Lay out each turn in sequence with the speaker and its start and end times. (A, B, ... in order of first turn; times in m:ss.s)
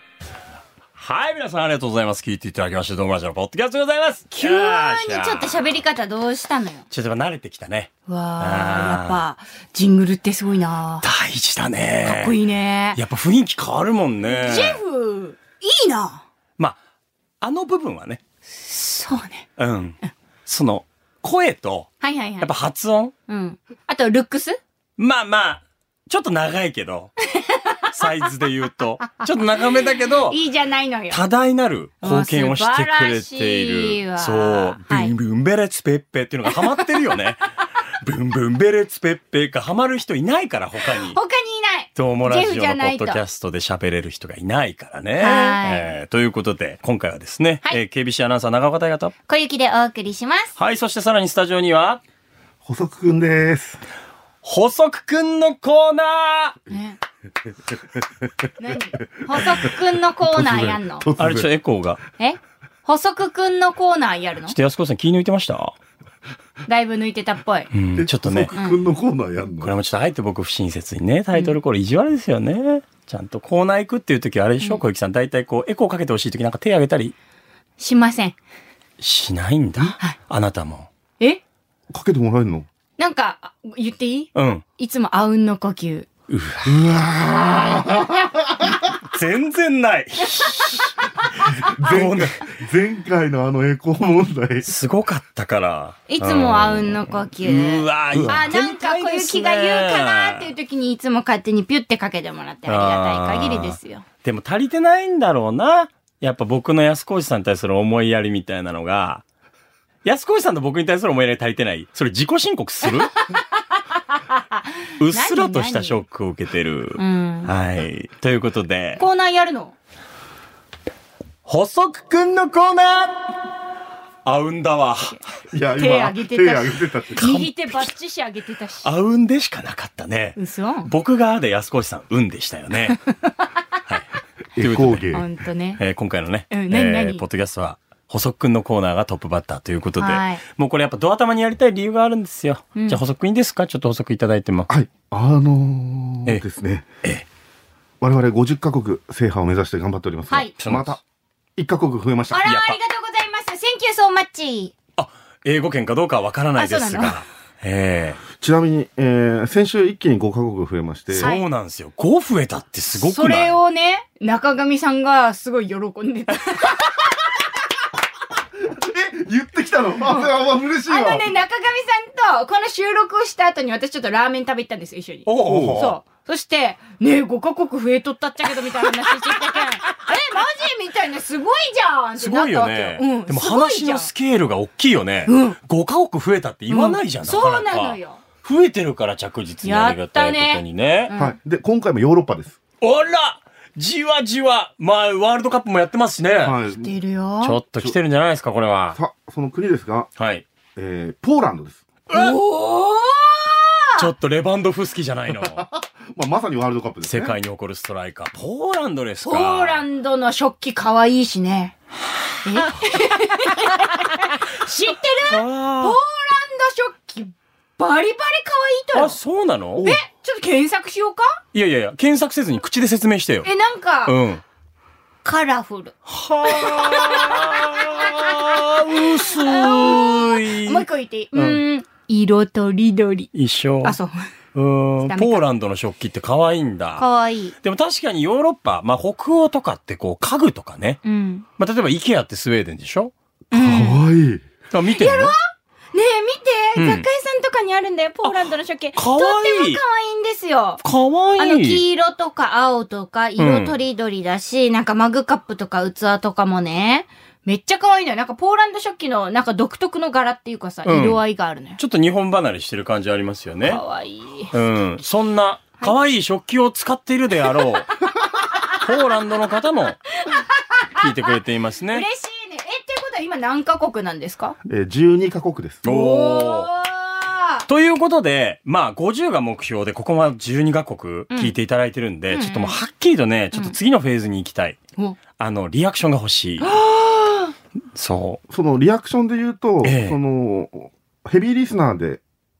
0:01.0-0:05.7 A
0:04.4-0:06.8 B
0:06.9-0:09.2 A
0:08.1-0:11.0 B
0:11.0-0:12.4 A
0:12.0-0:13.0 B
0:12.9-0:14.8 A
0:14.3-0:16.2 B
0:17.4-0:18.2 A
0:18.6-0:19.5 B
0:19.6-0:23.1 A
0:22.0-0:22.5 B
0:23.3-0:24.6 B
0:25.0-0:27.1 A
0:27.3-0:27.9 B
0:27.9-0:30.4 A
0:30.3-0:31.2 B
0:31.1-0:37.4 A
0:32.0-0:35.1 B
0:36.5-0:36.8 B
0:38.0-0:41.2 A
0:40.9-0:43.2 B
0:42.0-0:49.1 A
0:45.2-0:45.9 B
0:49.3-0:50.5 B
0:50.6-0:52.0 A
0:52.6-0:53.8 C
0:54.4-0:56.6 A
0:56.7-0:57.0 B
0:58.6-1:01.0 B
1:00.3-1:01.5 C
1:01.2-1:02.0 A
1:02.2-1:04.5 B
1:04.5-1:05.8 A
1:06.6-1:07.7 B
1:07.7-1:08.5 A
1:08.0-1:09.7 C
1:09.6-1:17.1 A
1:17.8-1:18.4 B
1:19.0-1:20.9 A
1:21.9-1:22.6 C
1:23.0-1:26.1 B
1:24.3-1:24.6 A
1:26.3-1:26.7 A
1:26.6-1:29.0 C
1:29.0-1:31.1 A
1:31.4-1:34.7 C
1:31.7-1:32.4 A
1:34.6-1:40.5 A
1:36.1-1:44.0 B
1:38.1-1:38.5 C
1:42.6-1:49.2 A
1:50.0-1:53.2 A
1:54.1-1:56.0 B
1:55.0-1:59.0 A
1:57.0-1:57.5 B
1:59.0-1:59.7 B
2:01.4-2:03.4 A
2:04.2-2:05.2 A
2:05.5-2:07.3 C
2:05.8-2:08.9 B
2:07.2-2:07.9 A
2:08.8-2:13.0 A
2:10.4-2:10.9 B
2:13.1-2:13.5 B
2:14.6-2:15.2 C
2:14.6-2:15.2 A
2:15.1-2:15.8 B
2:15.8-2:24.7 A
2:16.5-2:17.2 B
2:20.0-2:20.4 B
2:24.7-2:26.9 C
2:28.0-2:31.0 C
2:30.6-2:31.0 A
2:31.6-2:32.4 C
2:32.3-2:34.7 B
2:32.4-2:32.8 A
2:35.0-2:38.2 A
2:36.6-2:37.2 B
2:38.4-2:41.3 C
2:41.1-2:43.6 A
2:41.2-2:41.4 B
2:43.0-2:47.1 B
2:48.6-2:51.3 C
2:50.0-2:50.3 B
2:50.8-3:04.1 B
2:55.2-2:56.0 A
2:55.4-2:55.8 C
3:02.2-3:11.1 A
3:05.3-3:05.6 B
3:06.7-3:08.2 B
3:09.6-3:11.4 B
3:11.2-3:12.6 C
3:12.8-3:16.6 A
3:16.4-3:16.9 C
3:16.7-3:17.6 B
3:17.4-3:19.0 A
3:18.9-3:20.1 C
3:20.2-3:20.4 A
3:20.8-3:21.8 C
3:22.1-3:22.3 A
3:22.1-3:24.1 B
3:24.0-3:25.6 A
3:25.4-3:27.3 C
3:27.0-3:29.8 A
3:29.2-3:31.7 B
3:32.3-3:32.8 A
3:32.4-3:39.2 B
3:35.3-3:36.0 A
3:38.9-3:39.9 A
3:39.8-3:41.4 B
3:41.5-3:43.5 A
3:43.4-3:44.1 B
3:44.0-3:44.4 A
3:45.2-3:45.9 B
3:46.1-3:51.6 A
3:46.4-3:53.3 B
3:53.3-3:54.0 A
3:53.8-3:54.3 B
3:54.5-3:57.1 A
3:55.0-3:55.4 B
3:57.0-3:57.5 B
3:57.6-4:01.0 A
4:01.0-4:01.4 B
4:01.6-4:03.1 A
4:03.5-4:04.0 B
4:03.5-4:04.4 C
4:04.7-4:05.3 A
4:05.0-4:05.4 B
4:05.9-4:10.8 B
4:06.8-4:07.0 A
4:08.9-4:09.8 A
4:10.8-4:11.8 A
4:11.4-4:21.8 B
4:13.4-4:13.8 A
4:20.8-4:21.2 A
4:21.8-4:23.8 A
4:23.6-4:24.5 B
4:24.5-4:27.9 A
4:28.5-4:28.8 B
4:28.7-4:30.0 A
4:30.2-4:31.3 B
4:31.0-4:32.0 A
4:31.9-4:34.6 B
4:34.6-4:35.8 C
4:35.8-4:36.7 A
4:35.8-4:37.7 B
4:37.7-4:44.8 A
4:42.3-4:42.8 B
4:45.4-4:46.7 A
4:46.6-4:47.5 B
4:47.9-4:48.4 A
4:48.5-4:52.2 C
4:49.8-4:50.2 A